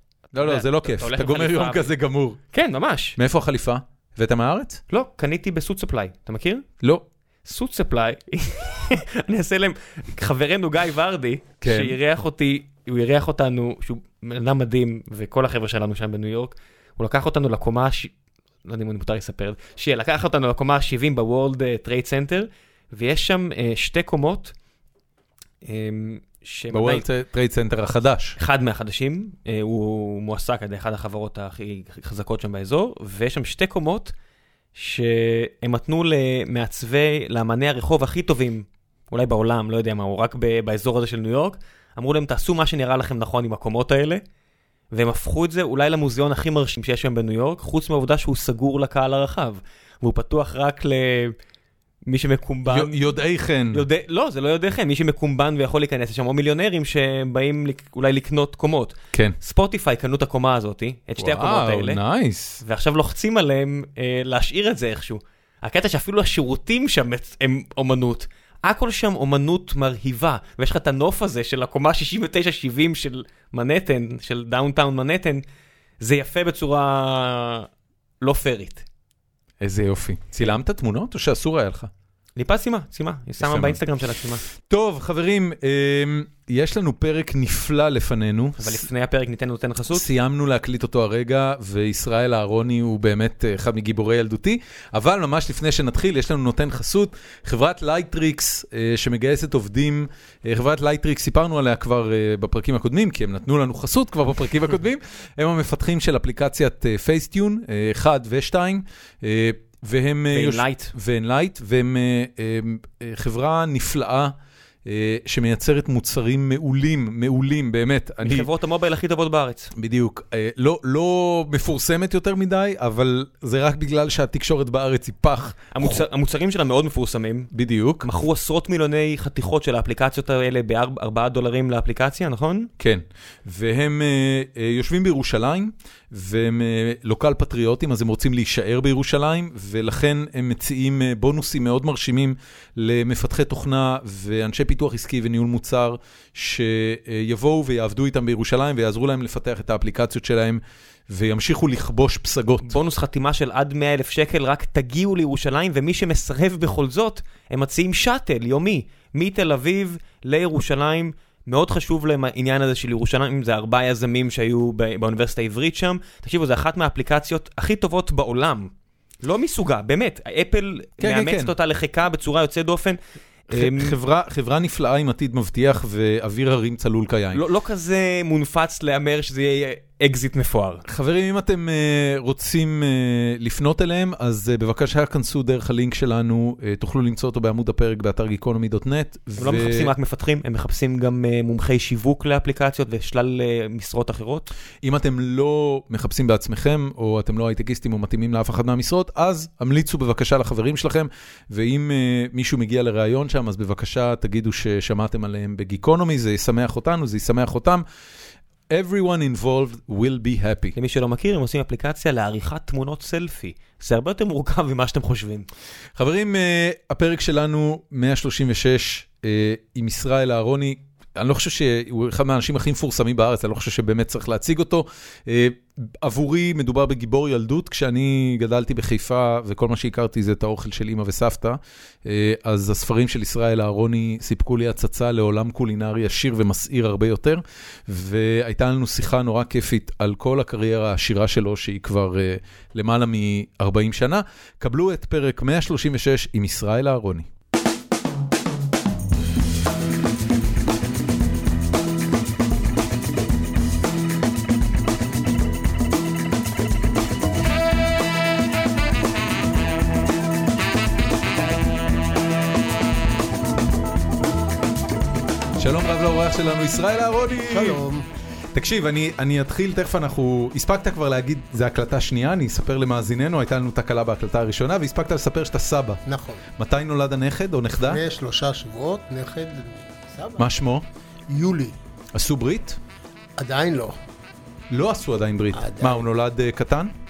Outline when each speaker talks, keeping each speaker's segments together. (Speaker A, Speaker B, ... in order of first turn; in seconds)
Speaker A: 0.3-2.4, 3.1-4.8, 11.6-11.9, 26.7-28.4, 52.7-53.8, 61.2-62.6, 79.6-81.9, 83.4-83.8, 84.7-88.8, 89.9-114.3, 114.8-118.5, 119.7-126.0, 127.5-128.1, 132.8-152.8, 171.0-171.5, 173.5-177.4, 180.8-189.9, 194.8-207.8, 208.7-210.8, 216.0-247.3, 265.6-267.8, 268.5-276.0, 276.6-278.0, 280.4-280.8, 282.1-282.8, 284.7-286.9
Speaker B: 0.4-1.9, 2.5-3.2, 4.9-6.7, 7.4-18.1, 18.6-24.5, 25.6-27.0, 28.4-34.1, 34.7-44.2, 44.9-51.4, 52.0-53.1, 53.7-62.0, 62.6-75.4, 76.0-77.7, 78.2-78.8, 82.3-84.4, 88.6-90.1, 110.3-110.9, 118.2-119.7, 125.7-127.5, 128.0-132.7, 152.6-168.7, 169.2-173.0, 173.5-173.9, 177.3-180.8, 189.4-194.5, 210.8-215.5
Speaker C: 267.5-268.1, 276.1-276.4, 277.8-280.5, 281.3-281.8, 283.4-283.9, 285.5-286.1